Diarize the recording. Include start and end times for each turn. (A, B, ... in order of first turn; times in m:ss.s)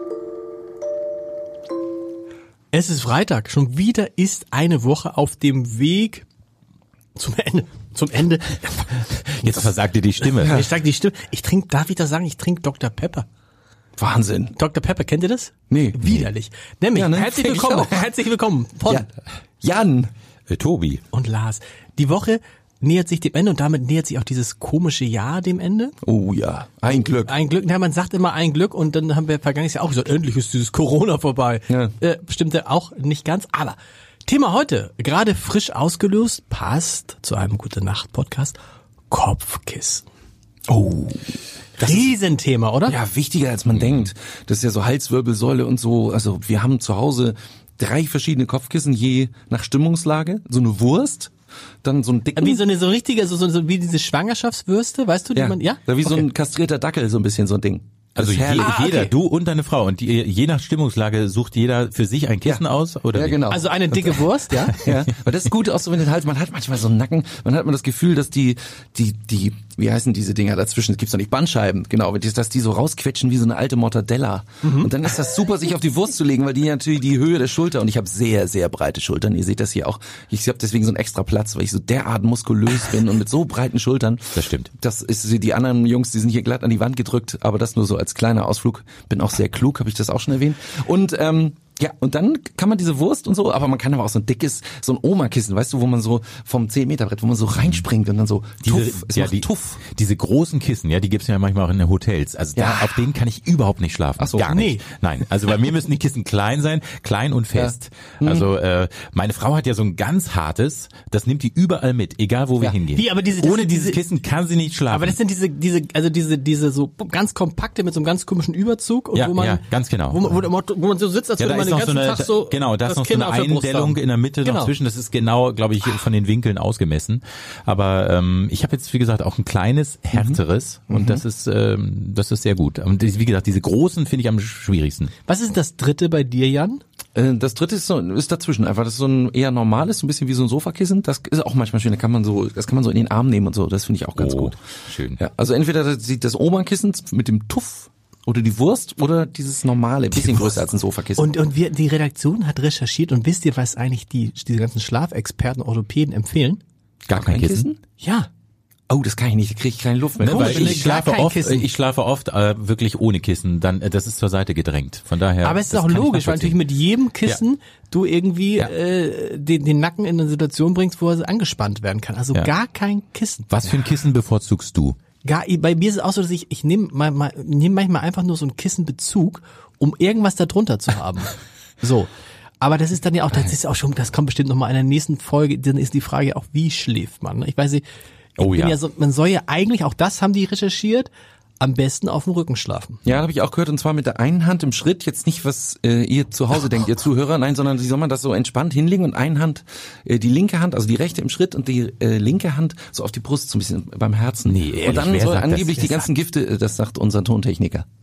0:02.7-0:06.2 A
0:07.1-0:09.5 A
0:09.4-0:10.6 B
0:10.2-0:13.3 A
0:10.4-0:10.7 C
0:14.0-0:14.5 C
0:14.5-0:19.0 A
0:15.7-0:16.0 C
0:16.9-0:18.1 C
0:19.6-0:20.1 C
0:20.5-0:21.0 B
0:21.1-0:25.9 A
0:26.0-0:27.3 C
0:26.9-0:38.6 A
0:39.1-0:40.0 A
0:40.7-0:41.2 C
0:41.8-0:43.0 A
0:41.8-0:42.1 C
0:42.8-0:51.3 C
0:51.8-0:52.7 C
0:52.4-0:55.8 A
0:55.3-0:58.9 C
0:58.2-1:03.4 B
0:58.5-0:59.1 A
1:02.4-1:39.8 C
1:03.5-1:04.8 A
1:14.6-1:14.9 A
1:24.3-1:24.7 B
1:38.7-1:55.2 B
1:42.6-1:43.0 C
1:44.2-1:44.5 C
1:44.5-1:44.8 A
1:47.5-1:48.5 C
1:52.9-1:54.0 A
1:54.9-2:04.7 A
1:59.1-2:00.3 B
2:01.4-2:15.1 B
2:10.1-2:11.2 C
2:15.2-2:16.8 A
2:17.1-2:24.6 C
2:24.2-2:25.2 B
2:25.2-2:31.4 C
2:31.2-2:36.6 A
2:37.1-2:37.7 B
2:37.1-2:37.8 C
2:38.0-2:38.3 A
2:38.9-2:40.9 C
2:40.2-2:46.6 B
2:40.2-2:41.7 A
2:45.4-2:53.5 A
2:53.5-2:55.0 B
2:55.2-3:07.8 A
3:08.4-3:08.8 B
3:08.4-3:13.0 A
3:13.0-3:27.8 C
3:24.4-3:25.9 B